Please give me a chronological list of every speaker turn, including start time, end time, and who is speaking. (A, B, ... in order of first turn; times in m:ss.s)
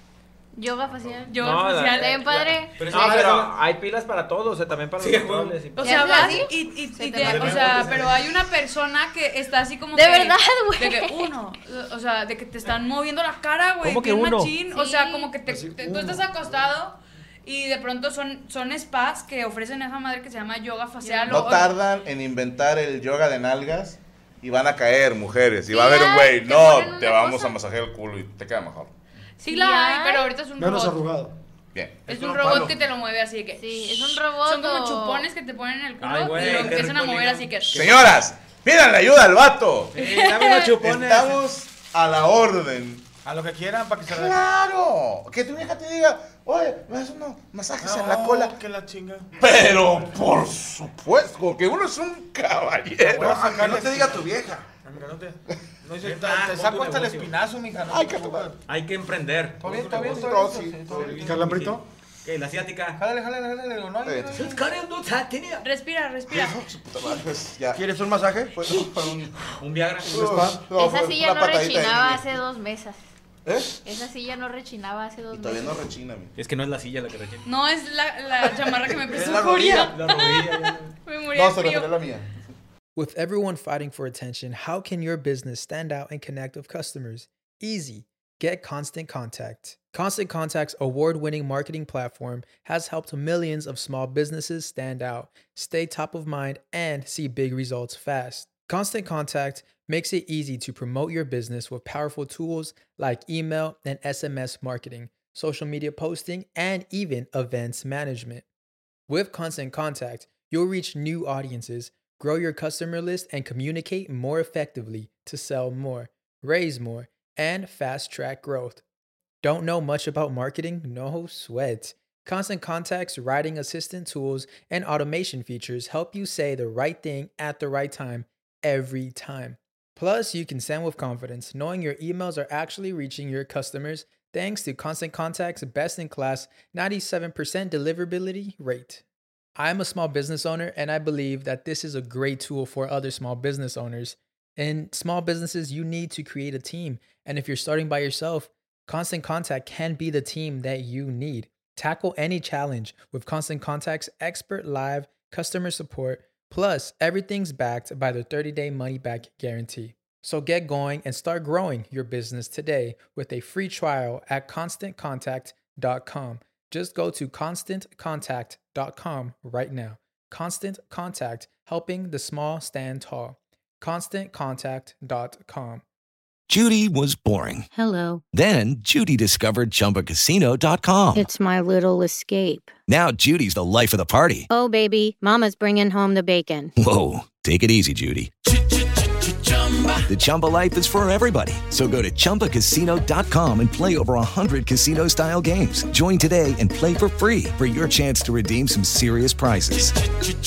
0:00.6-0:03.5 A
0:01.3-0:02.2 B
0:01.4-0:06.4 C
0:02.8-0:03.5 D
0:05.0-0:05.6 D
0:05.8-0:21.7 B
0:05.8-0:07.9 A
0:07.2-0:08.2 D
0:09.9-0:11.3 A
0:13.8-0:14.5 D
0:14.7-0:15.4 A
0:15.4-0:16.6 E
0:21.0-0:21.7 A
0:21.3-0:28.9 F
0:25.7-0:27.6 A
0:29.4-0:31.0 B
0:29.5-0:30.3 A
0:30.6-0:31.4 E
0:31.7-0:32.1 F
0:32.1-0:37.8 B
0:32.1-0:32.7 G
0:33.6-0:35.3 A
0:36.0-0:38.1 D
0:37.7-0:40.0 F
0:40.0-0:41.4 D
0:40.0-0:40.8 B
0:40.8-0:43.0 F
0:43.2-0:44.4 H
0:44.1-0:48.6 F
0:47.8-0:49.3 H
0:49.4-0:53.5 F
0:53.1-0:58.6 H
0:53.2-0:54.7 G
0:56.0-0:57.3 D
0:57.9-0:58.5 F
0:58.7-1:00.4 D
0:59.6-1:01.6 H
0:59.9-1:01.1 F
1:00.9-1:01.9 E
1:00.9-1:03.0 D
1:03.0-1:04.7 H
1:04.0-1:04.6 F
1:04.3-1:05.6 D
1:05.6-1:06.6 B
1:06.3-1:07.8 F
1:07.7-1:08.6 G
1:08.5-1:12.2 F
1:09.6-1:10.3 D
1:10.1-1:10.6 E
1:10.7-1:13.0 A
1:13.4-1:13.8 F
1:13.8-1:15.9 A
1:15.3-1:16.3 F
1:16.4-1:17.5 D
1:17.4-1:21.9 B
1:19.0-1:19.9 F
1:19.6-1:19.9 G
1:19.7-1:20.9 D
1:21.3-1:22.3 F
1:23.0-1:48.4 I
1:49.1-1:58.8 I
1:59.4-2:19.0 I
2:19.6-2:55.8 I
2:56.5-2:57.7 J
2:57.7-2:58.2 K
2:58.3-3:01.3 J
3:01.1-3:02.7 K
3:02.9-3:04.5 J
3:04.5-3:06.7 K
3:06.8-3:08.3 J
3:10.1-3:19.9 J